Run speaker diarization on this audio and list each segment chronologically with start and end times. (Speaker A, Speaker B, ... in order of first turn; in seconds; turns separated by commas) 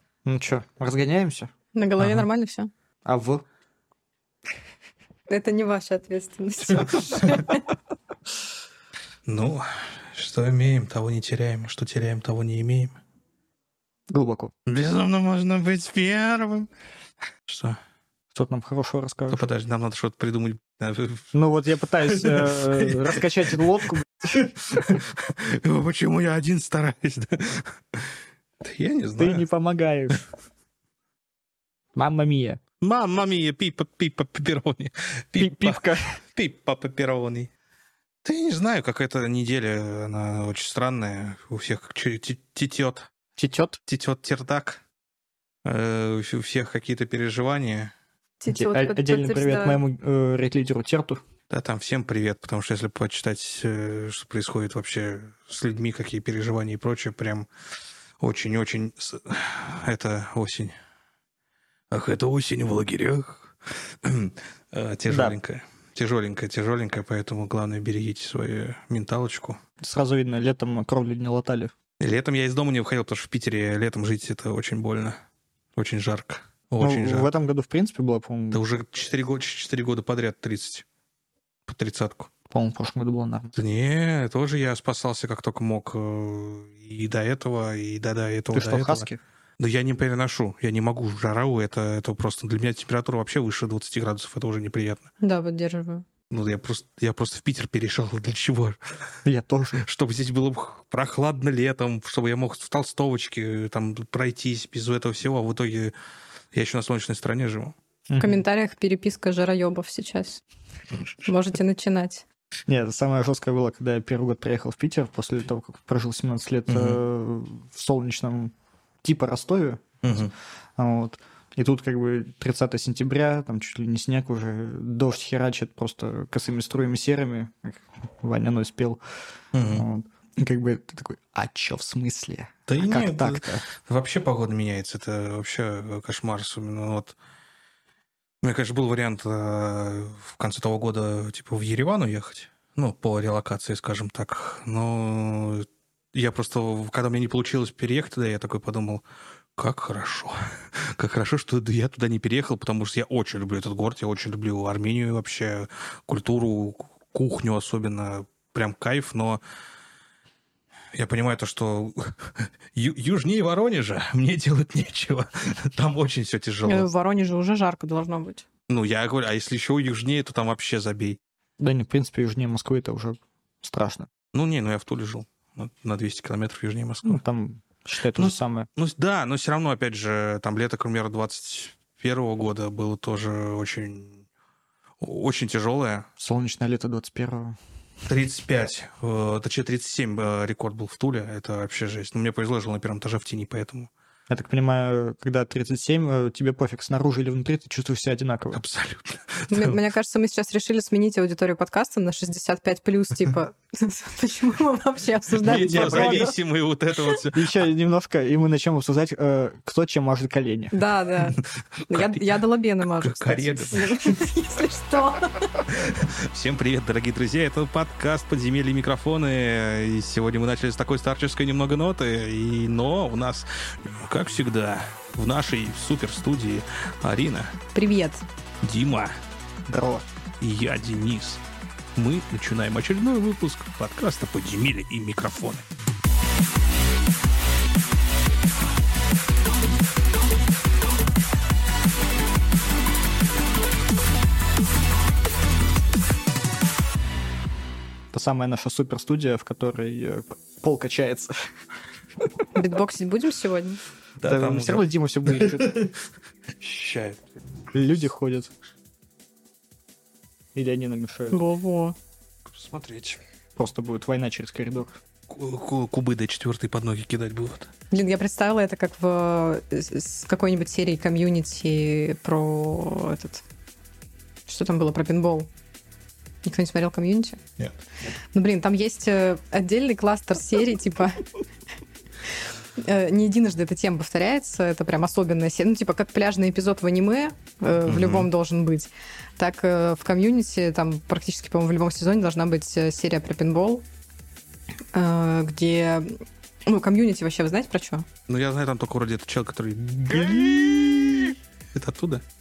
Speaker A: 0.3-1.5, Speaker B: 1.7-2.7, Speaker C: 2.0-2.3, Speaker A: 3.0-3.5, Speaker B: 5.3-7.6, Speaker C: 6.7-7.5, Speaker C: 9.3-13.0, Speaker A: 14.1-14.5, Speaker C: 14.7-16.7, Speaker C: 17.5-17.8, Speaker A: 18.3-19.4, Speaker C: 19.3-21.3, Speaker A: 21.3-24.5, Speaker C: 22.1-23.1, Speaker C: 24.3-29.4, Speaker A: 29.2-30.2, Speaker A: 31.9-32.6, Speaker C: 32.8-35.8, Speaker A: 35.4-36.1, Speaker C: 36.3-37.5, Speaker C: 38.2-43.1, Speaker A: 43.4-43.8, Speaker C: 43.9-44.8, Speaker C: 45.6-47.9, Speaker B: 48.4-49.8, Speaker A: 48.5-51.2, Speaker C: 51.5-57.5, Speaker C: 58.2-60.7, Speaker C: 61.9-69.6, Speaker A: 65.1-65.4, Speaker A: 69.8-71.7, Speaker C: 72.0-75.2, Speaker C: 75.8-77.3, Speaker A: 76.8-78.6, Speaker C: 78.5-80.8, Speaker C: 81.7-82.3, Speaker A: 82.5-83.5, Speaker C: 83.5-89.1, Speaker A: 88.5-89.2, Speaker C: 89.6-95.1, Speaker B: 95.2-96.0, Speaker C: 96.3-98.8, Speaker A: 99.2-99.8, Speaker C: 99.8-105.9, Speaker C: 106.5-107.7, Speaker A: 108.1-108.4, Speaker B: 108.2-110.4, Speaker B: 111.2-112.2, Speaker A: 112.7-118.5, Speaker C: 116.7-117.0, Speaker A: 119.0-120.2, Speaker C: 120.0-120.3, Speaker A: 120.8-129.0, Speaker C: 129.5-129.8, Speaker A: 129.7-133.7, Speaker C: 132.7-137.2, Speaker C: 138.4-149.0, Speaker C: 149.6-159.4, Speaker C: 160.9-166.9, Speaker B: 166.7-168.4, Speaker C: 168.7-171.2, Speaker A: 171.6-174.1, Speaker C: 174.3-177.2, Speaker A: 177.0-178.7, Speaker C: 178.2-184.2, Speaker C: 185.0-186.1, Speaker A: 186.2-187.6, Speaker C: 188.1-193.9, Speaker A: 194.3-198.6, Speaker C: 198.5-199.8, Speaker B: 199.5-206.3, Speaker C: 205.4-207.5, Speaker A: 205.7-206.3, Speaker A: 207.3-210.8, Speaker B: 210.7-215.6, Speaker C: 211.9-212.2, Speaker C: 213.0-214.2, Speaker C: 215.7-227.6, Speaker B: 227.7-228.2, Speaker C: 228.6-229.2, Speaker A: 229.7-230.1, Speaker C: 230.4-231.4, Speaker C: 232.0-235.7, Speaker A: 248.1-251.3, Speaker B: 252.6-253.8, Speaker C: 254.2-255.9, Speaker A: 254.2-255.8, Speaker C: 256.6-257.2, Speaker A: 257.7-258.5, Speaker A: 260.6-261.4, Speaker B: 261.3-262.0, Speaker C: 262.5-263.2, Speaker A: 263.6-265.0, Speaker C: 265.3-267.7, Speaker B: 267.9-273.4, Speaker B: 274.5-275.5, Speaker B: 276.4-277.4, Speaker B: 278.3-281.3, Speaker B: 282.8-293.8, Speaker C: 287.9-288.3, Speaker B: 294.9-298.1, Speaker C: 298.3-302.2, Speaker A: 300.3-301.1